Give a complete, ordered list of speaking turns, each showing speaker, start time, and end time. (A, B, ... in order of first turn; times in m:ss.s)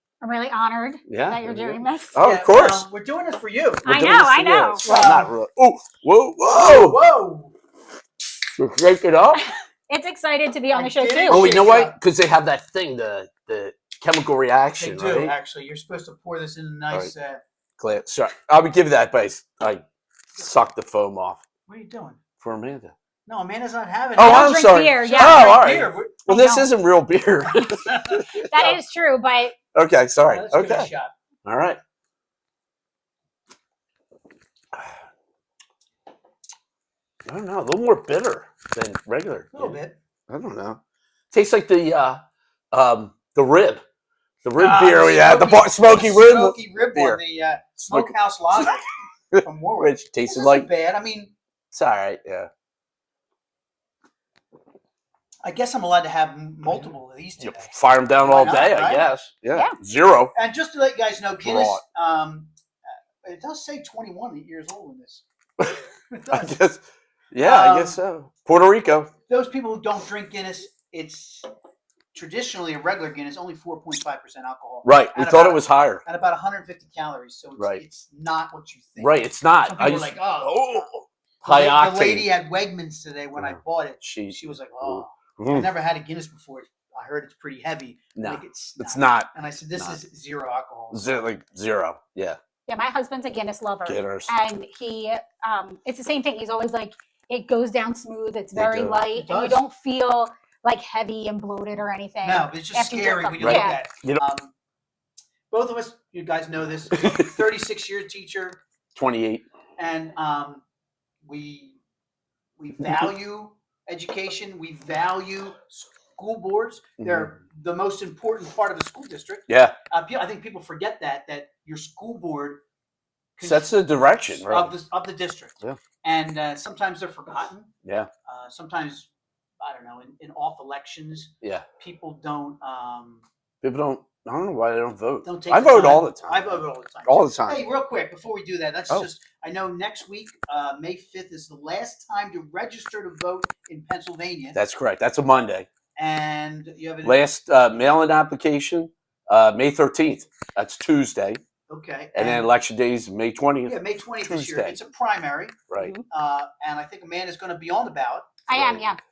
0:00.2-0:02.2 A
0:01.1-0:02.9 B
0:02.2-0:03.9 C
0:03.8-0:07.0 B
0:03.8-0:04.8 A
0:04.8-0:05.3 C
0:06.4-0:07.5 C
0:08.6-0:09.4 B
0:09.4-0:11.5 A
0:10.7-0:12.0 C
0:11.3-0:15.3 B
0:14.8-0:17.4 C
0:17.8-0:19.8 B
0:20.3-0:21.4 B
0:21.7-0:22.2 C
0:22.4-0:22.9 B
0:23.2-0:26.3 C
0:24.2-0:28.6 B
0:24.2-0:25.7 A
0:26.2-0:26.7 A
0:27.5-0:28.7 C
0:28.3-0:29.5 A
0:29.7-0:30.9 B
0:30.3-0:31.1 C
0:31.4-0:31.8 B
0:37.2-0:39.8 B
0:39.5-0:40.0 C
0:40.3-0:40.8 B
0:41.3-0:42.2 B
0:42.7-0:43.8 B
0:44.4-0:47.2 B
0:44.6-0:51.3 C
0:47.8-0:50.7 B
0:51.7-0:52.5 B
0:55.4-0:59.1 C
0:56.7-1:00.3 B
0:59.5-0:59.8 A
1:00.3-1:02.5 C
1:01.4-1:01.8 B
1:03.2-1:05.2 C
1:06.1-1:06.6 C
1:06.3-1:09.1 B
1:07.4-1:08.0 C
1:09.3-1:11.5 C
1:12.1-1:20.9 C
1:14.8-1:16.0 B
1:17.6-1:17.8 B
1:19.0-1:22.3 B
1:21.4-1:31.2 C
1:23.4-1:25.7 B
1:28.2-1:30.0 B
1:30.9-1:32.4 B
1:32.7-1:43.8 A
1:33.8-1:34.3 B
1:38.5-1:39.0 B
1:39.1-1:39.6 C
1:42.2-1:44.5 C
1:43.4-1:44.2 B
1:45.5-1:48.6 C
1:47.0-1:47.3 B
1:48.9-1:49.4 B
1:49.8-1:50.6 C
1:51.2-1:51.8 C
1:52.6-2:02.6 C
1:57.0-1:57.3 B
1:59.5-1:59.8 B
2:03.4-2:07.7 C
2:03.4-2:04.7 B
2:07.8-2:08.1 B
2:08.2-2:09.1 C
2:09.6-2:13.2 C
2:13.6-2:17.6 B
2:15.2-2:24.6 C
2:24.5-2:25.7 B
2:26.0-2:27.2 C
2:27.0-2:31.4 B
2:31.7-2:32.5 C
2:32.1-2:34.8 B
2:33.6-2:38.3 C
2:35.7-2:35.9 B
2:35.8-2:36.0 A
2:38.5-2:39.0 A
2:38.5-2:38.9 B